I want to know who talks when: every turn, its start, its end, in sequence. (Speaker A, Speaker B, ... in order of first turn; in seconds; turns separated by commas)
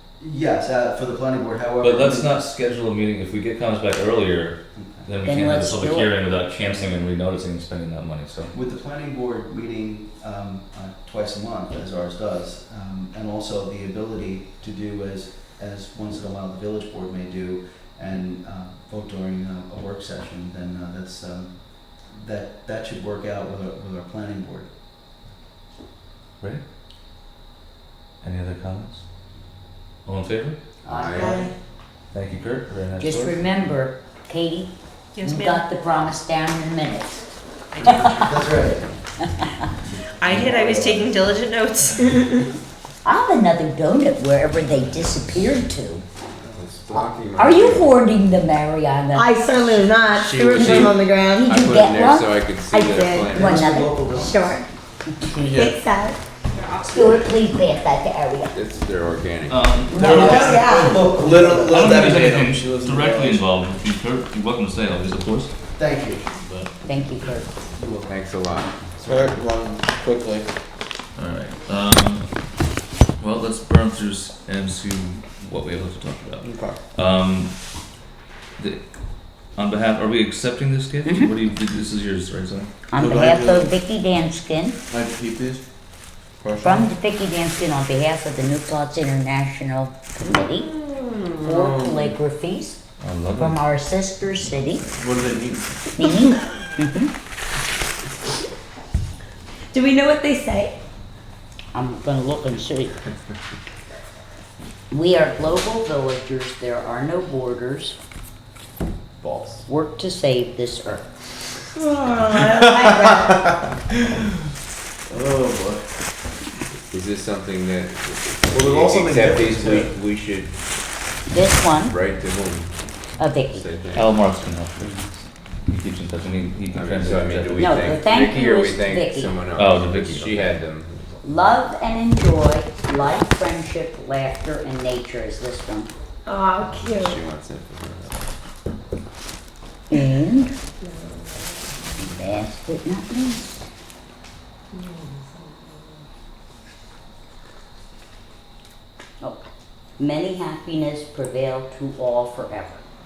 Speaker A: 0.2-2.3, Speaker B: 1.8-8.5, Speaker A: 4.8-5.1, Speaker C: 5.2-6.4, Speaker A: 8.5-24.7, Speaker B: 28.2-29.1, Speaker B: 30.1-30.6, Speaker C: 30.9-31.5, Speaker D: 30.9-31.5, Speaker A: 31.0-31.5, Speaker E: 31.1-31.5, Speaker B: 32.1-33.4, Speaker C: 33.0-37.4, Speaker F: 35.1-35.8, Speaker A: 37.8-38.9, Speaker F: 40.2-42.4, Speaker A: 40.2-41.2, Speaker C: 43.0-46.0, Speaker D: 46.5-48.0, Speaker C: 47.4-49.4, Speaker E: 49.1-51.6, Speaker D: 50.0-53.7, Speaker C: 50.5-52.5, Speaker E: 52.7-53.4, Speaker C: 53.3-54.1, Speaker A: 53.3-54.6, Speaker E: 54.1-54.7, Speaker G: 55.3-55.8, Speaker E: 55.5-56.2, Speaker F: 56.6-57.2, Speaker C: 56.8-58.5, Speaker D: 58.5-59.8, Speaker B: 59.5-61.0, Speaker E: 59.9-61.0, Speaker A: 60.0-62.3, Speaker G: 60.0-63.5, Speaker B: 61.6-65.5, Speaker A: 65.8-66.4, Speaker C: 66.8-67.5, Speaker A: 67.7-69.4, Speaker D: 68.1-68.8, Speaker G: 69.0-70.5, Speaker B: 71.2-72.4, Speaker B: 73.2-77.6, Speaker G: 76.4-76.8, Speaker B: 78.6-78.9, Speaker B: 79.4-82.7, Speaker C: 81.1-81.3, Speaker C: 82.9-84.8, Speaker G: 82.9-83.7, Speaker G: 84.9-85.6, Speaker G: 86.4-86.9, Speaker C: 86.6-90.8, Speaker C: 91.3-94.9, Speaker G: 91.7-92.0, Speaker B: 93.0-93.6, Speaker G: 94.9-95.8, Speaker C: 96.0-97.1, Speaker E: 99.7-100.8, Speaker C: 101.7-103.0, Speaker C: 104.9-108.0, Speaker G: 109.2-109.6, Speaker C: 109.7-111.1, Speaker E: 112.0-113.4, Speaker G: 112.0-113.4, Speaker G: 115.1-116.0, Speaker D: 116.9-120.8, Speaker G: 118.5-120.0, Speaker C: 121.3-122.0, Speaker D: 121.7-124.1, Speaker C: 123.2-123.7, Speaker B: 123.9-127.9, Speaker D: 126.7-131.2, Speaker C: 127.5-129.3, Speaker B: 129.6-130.5, Speaker C: 131.2-135.9, Speaker E: 136.3-137.2, Speaker D: 136.6-138.2, Speaker C: 139.9-140.6, Speaker E: 140.8-141.7, Speaker C: 142.0-143.6, Speaker E: 144.7-145.3, Speaker C: 149.2-152.8